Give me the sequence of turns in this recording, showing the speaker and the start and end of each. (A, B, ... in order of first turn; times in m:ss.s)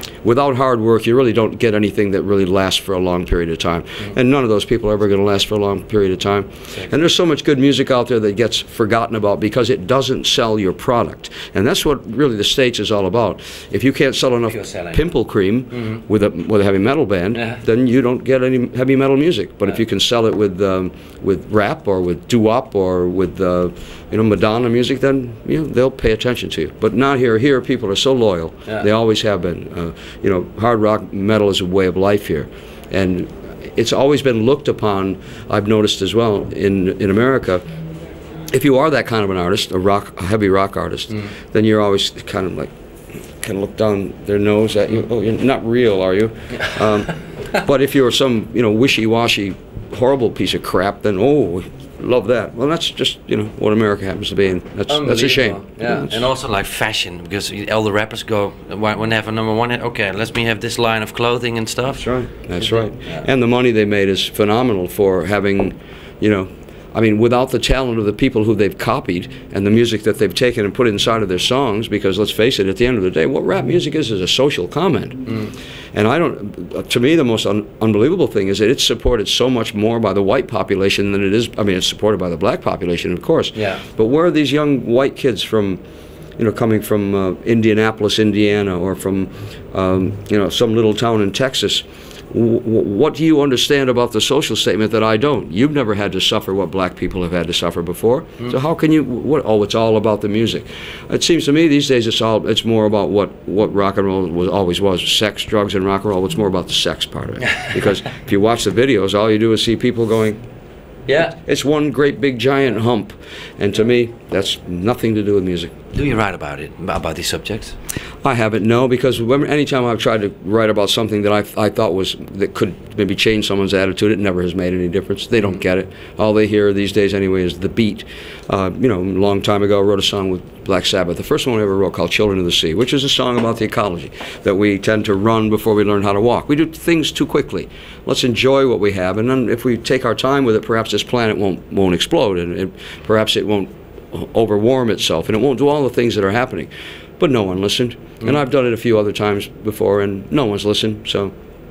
0:00.2-0:37.6 A
0:14.5-0:15.0 B
0:17.3-0:17.6 B
0:38.5-0:42.7 A
0:43.4-0:56.1 A
0:46.7-0:47.0 B
0:54.9-1:02.1 B
1:02.0-1:25.8 A
1:02.6-1:03.3 B
1:23.6-1:23.8 B
1:26.4-1:50.4 A
1:51.1-1:51.3 B
1:51.2-1:55.7 A
1:55.9-1:57.8 B
1:58.2-2:31.3 A